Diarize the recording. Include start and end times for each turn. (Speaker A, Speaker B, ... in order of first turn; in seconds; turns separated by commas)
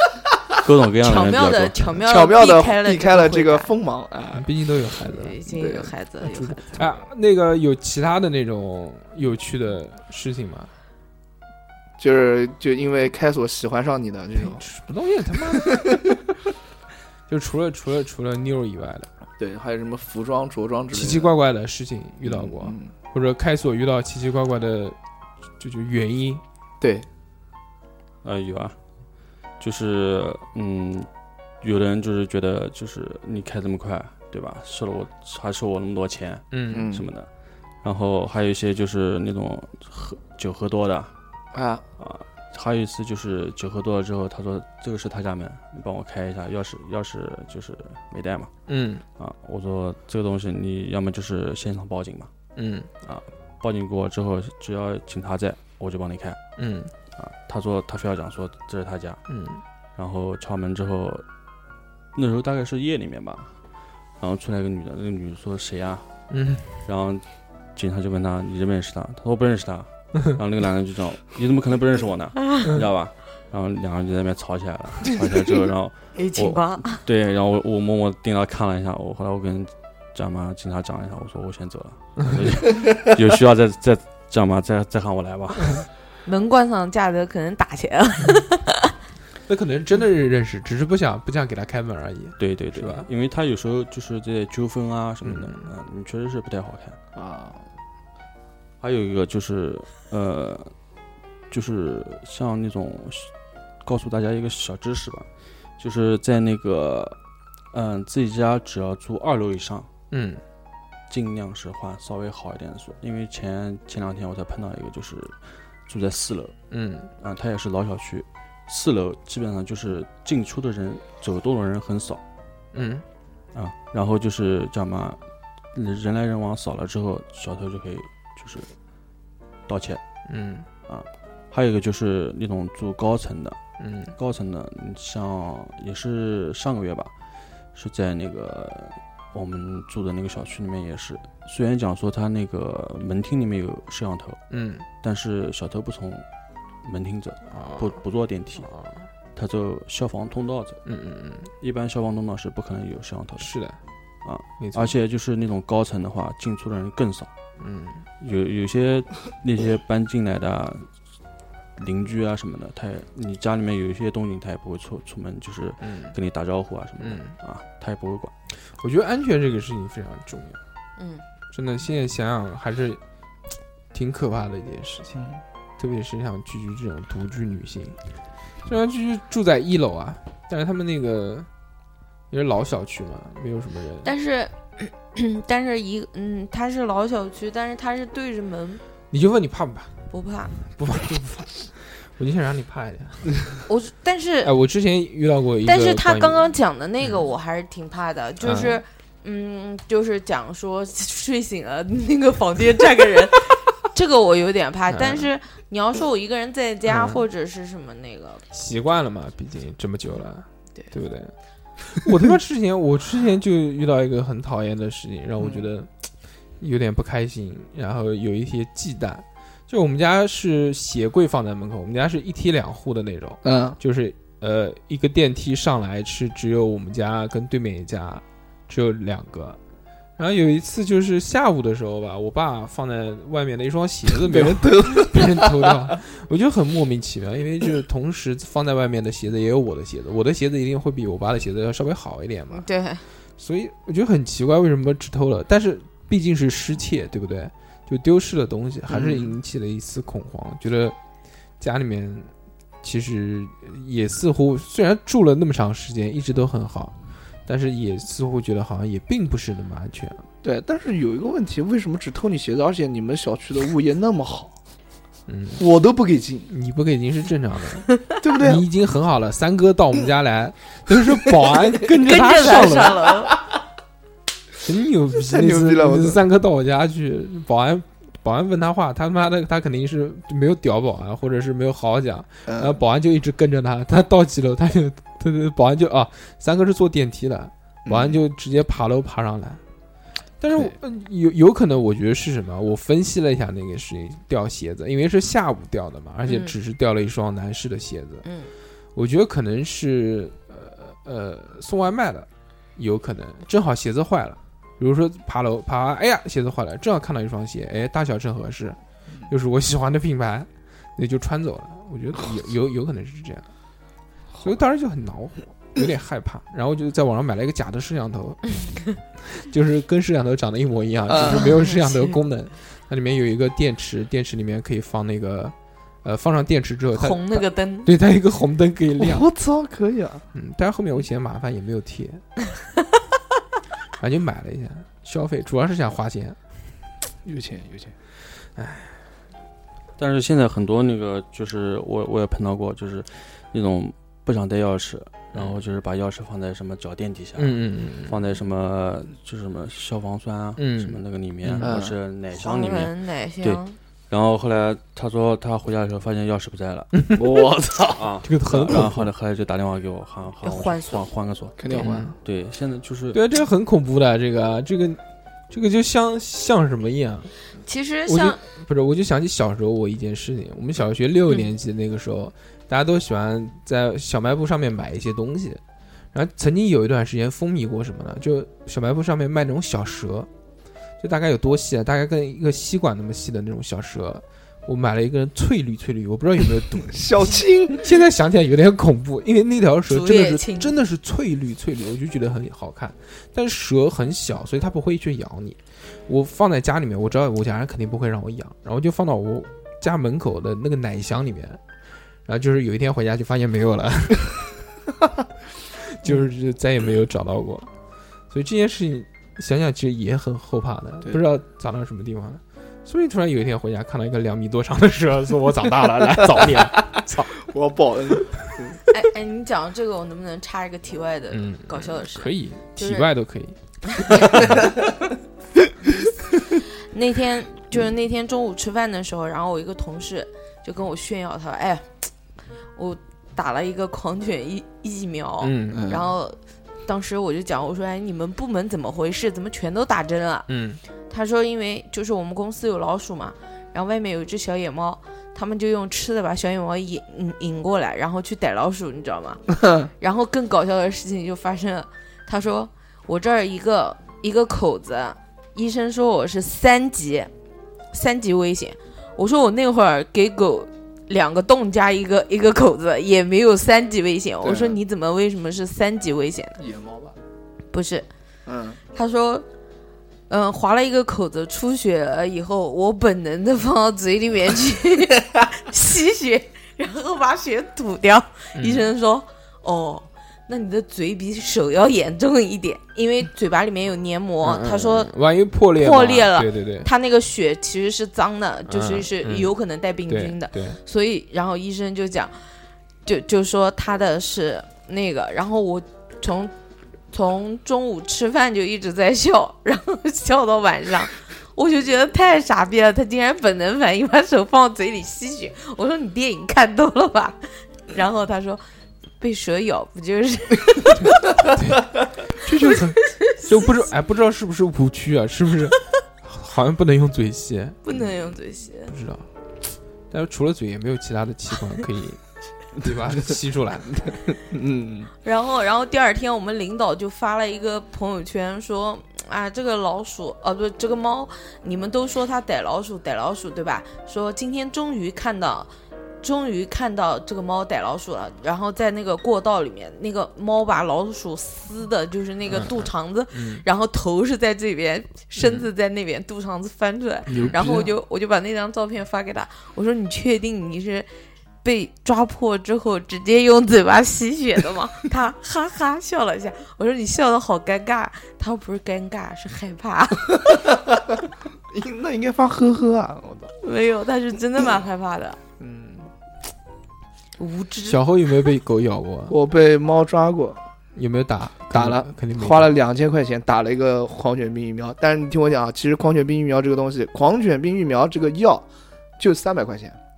Speaker A: 0.6-1.8, Speaker B: 1.0-3.7, Speaker C: 2.0-4.5, Speaker D: 4.3-5.4, Speaker B: 5.0-6.9, Speaker C: 5.5-5.9, Speaker D: 6.3-10.7, Speaker C: 12.0-14.6, Speaker D: 14.3-16.0, Speaker C: 15.6-16.0, Speaker D: 17.3-19.1, Speaker C: 19.4-21.3, Speaker D: 20.9-25.0, Speaker C: 22.2-22.9, Speaker D: 25.6-26.4, Speaker C: 26.8-27.1, Speaker A: 28.2-28.8, Speaker A: 29.6-31.1, Speaker A: 31.6-37.3, Speaker D: 36.5-36.9, Speaker C: 36.7-37.1, Speaker A: 37.8-41.1, Speaker C: 41.5-41.8, Speaker A: 42.0-48.5, Speaker D: 48.7-49.0, Speaker A: 49.2-52.3, Speaker D: 52.6-52.9, Speaker A: 53.0-56.4, Speaker D: 56.6-56.9, Speaker A: 57.2-59.2, Speaker D: 59.3-59.6, Speaker A: 60.0-61.2, Speaker A: 62.1-63.5, Speaker A: 64.2-66.1, Speaker D: 66.3-66.7, Speaker A: 66.8-85.8, Speaker B: 76.2-77.0, Speaker B: 86.3-88.9, Speaker D: 89.5-93.1, Speaker A: 92.4-97.0, Speaker D: 95.2-95.7, Speaker C: 97.2-97.6, Speaker A: 98.8-100.7, Speaker A: 101.5-103.3, Speaker A: 103.8-105.3, Speaker A: 105.8-107.2, Speaker A: 107.7-109.9, Speaker D: 110.1-110.4, Speaker A: 111.1-116.6, Speaker D: 116.7-117.1, Speaker A: 117.2-122.2, Speaker D: 122.7-123.0, Speaker A: 123.5-125.2, Speaker A: 125.7-128.7, Speaker A: 129.7-130.0, Speaker D: 130.3-130.7, Speaker A: 130.9-133.6, Speaker D: 133.8-134.1, Speaker A: 134.2-137.1, Speaker A: 137.7-144.4, Speaker D: 144.5-144.8, Speaker A: 145.0-146.2, Speaker A: 146.8-148.7, Speaker D: 147.5-148.0, Speaker D: 148.6-149.1, Speaker A: 149.3-150.8, Speaker D: 150.8-151.5, Speaker A: 151.6-153.5, Speaker D: 153.4-153.8, Speaker A: 154.2-157.3, Speaker D: 154.6-154.9, Speaker D: 157.6-158.0, Speaker A: 158.2-160.9, Speaker A: 161.8-168.3, Speaker D: 165.8-166.2, Speaker D: 167.0-167.3, Speaker D: 168.7-170.6, Speaker B: 171.0-171.2, Speaker D: 171.5-173.0, Speaker D: 173.9-175.2, Speaker C: 175.1-175.4, Speaker D: 175.8-178.0, Speaker D: 178.7-181.5, Speaker D: 182.3-184.1, Speaker B: 184.0-188.8, Speaker D: 189.1-190.0, Speaker B: 190.1-190.6, Speaker D: 190.6-193.6, Speaker B: 193.7-194.5, Speaker D: 194.4-197.2, Speaker B: 195.7-208.4, Speaker D: 198.4-198.8, Speaker D: 204.9-205.3, Speaker D: 206.9-207.2, Speaker D: 208.5-211.3, Speaker D: 211.9-215.9, Speaker C: 215.4-215.7, Speaker D: 216.6-229.6, Speaker C: 223.4-223.8, Speaker D: 230.2-242.7, Speaker C: 234.1-235.9, Speaker B: 242.5-243.0, Speaker D: 243.4-251.0, Speaker C: 248.9-249.3, Speaker D: 251.6-252.3, Speaker D: 252.8-256.9, Speaker D: 257.5-260.2, Speaker C: 260.4-264.6, Speaker D: 265.3-265.6, Speaker C: 265.6-266.5, Speaker D: 266.5-273.0, Speaker C: 268.2-268.6, Speaker B: 272.0-273.4, Speaker D: 274.6-289.6, Speaker C: 275.3-276.2, Speaker C: 282.5-282.8, Speaker C: 287.9-288.2, Speaker D: 290.4-298.3, Speaker B: 296.3-296.6, Speaker B: 298.2-298.5, Speaker D: 298.9-308.8, Speaker D: 309.3-313.5, Speaker D: 314.4-318.6, Speaker D: 319.3-329.2, Speaker C: 321.1-321.5, Speaker B: 321.2-322.1, Speaker B: 326.9-327.9, Speaker C: 329.0-330.2, Speaker D: 330.3-332.2, Speaker D: 334.0-336.4, Speaker C: 337.2-337.9, Speaker D: 338.6-338.9, Speaker A: 340.0-356.9, Speaker D: 347.4-348.2, Speaker D: 350.6-351.7, Speaker C: 351.6-352.0, Speaker B: 352.4-353.8, Speaker C: 357.1-358.1, Speaker A: 358.0-361.6, Speaker D: 358.2-359.1, Speaker B: 360.4-361.1, Speaker C: 361.6-362.1, Speaker D: 361.7-362.2, Speaker A: 362.2-363.2, Speaker D: 363.1-367.3, Speaker B: 367.6-368.4, Speaker D: 368.1-375.6, Speaker D: 376.1-380.3, Speaker D: 381.0-387.0, Speaker C: 386.8-387.9, Speaker D: 387.8-401.6, Speaker B: 389.9-390.8, Speaker D: 402.3-404.5, Speaker D: 405.8-407.7, Speaker D: 408.3-417.4, Speaker C: 417.4-418.8, Speaker B: 418.9-423.1, Speaker D: 421.3-424.6, Speaker B: 423.9-424.8, Speaker C: 424.4-424.7, Speaker B: 426.9-432.1, Speaker B: 432.8-440.5, Speaker D: 435.4-435.9, Speaker C: 435.7-436.1, Speaker D: 440.5-440.8, Speaker B: 441.1-457.3, Speaker B: 457.9-466.6, Speaker C: 464.4-464.8, Speaker C: 466.6-467.2, Speaker B: 467.7-468.1, Speaker C: 468.5-468.8, Speaker B: 468.9-469.4, Speaker B: 470.3-485.1, Speaker D: 478.6-478.9, Speaker D: 484.4-486.9, Speaker B: 485.8-492.4, Speaker D: 488.7-489.5, Speaker D: 490.1-490.8, Speaker B: 493.1-496.5, Speaker B: 497.1-508.6, Speaker B: 509.2-511.4, Speaker D: 511.4-517.8, Speaker B: 513.3-513.8, Speaker B: 517.8-518.9, Speaker D: 518.9-519.3, Speaker D: 520.1-522.2, Speaker D: 522.8-524.1, Speaker C: 524.0-525.1, Speaker B: 525.2-551.1, Speaker D: 542.5-543.6, Speaker D: 545.4-545.7, Speaker C: 547.3-547.9, Speaker D: 547.3-547.6, Speaker B: 551.6-560.7, Speaker C: 560.5-561.2, Speaker C: 561.7-563.5, Speaker B: 563.6-565.4, Speaker C: 565.6-566.1, Speaker B: 567.4-568.0, Speaker D: 567.9-569.4, Speaker C: 569.3-570.6, Speaker D: 571.0-572.7, Speaker C: 571.7-578.7, Speaker C: 579.2-580.0